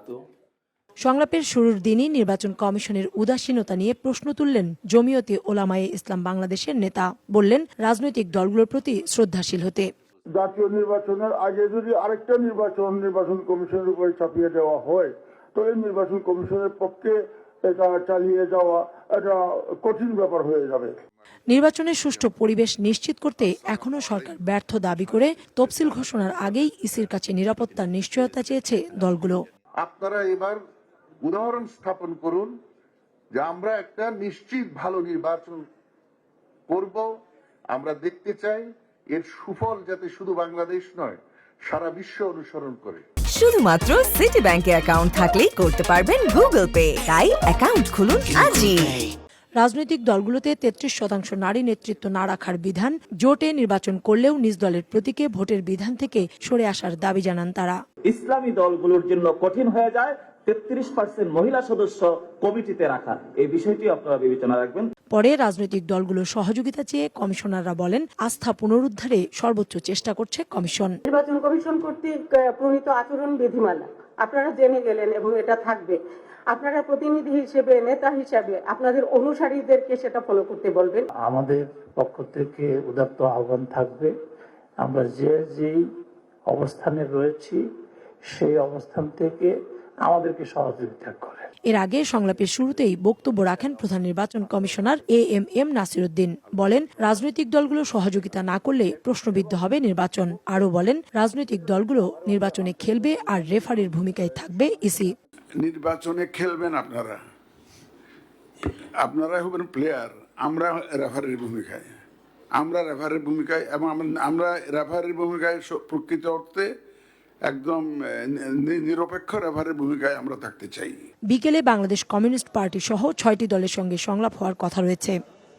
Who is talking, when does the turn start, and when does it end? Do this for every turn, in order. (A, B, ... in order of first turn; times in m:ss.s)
0:01.0-0:09.9 A
0:10.4-0:20.9 B
0:21.5-0:29.4 A
0:29.8-0:30.6 C
0:31.2-0:32.5 C
0:33.3-0:35.6 C
0:36.7-0:37.1 C
0:37.7-0:43.0 C
0:43.3-0:49.0 D
0:49.6-0:57.8 A
0:58.1-1:04.9 E
1:05.1-1:11.0 A
1:11.0-1:16.0 F
1:16.5-1:21.0 F
1:21.2-1:24.1 G
1:24.8-1:25.8 G
1:26.5-1:27.6 G
1:28.3-1:29.5 G
1:30.0-1:31.4 G
1:31.7-1:45.1 A
1:45.6-1:47.2 H
1:48.7-1:51.9 H
1:52.6-1:56.6 H
1:57.5-2:01.0 H
2:01.3-2:05.2 A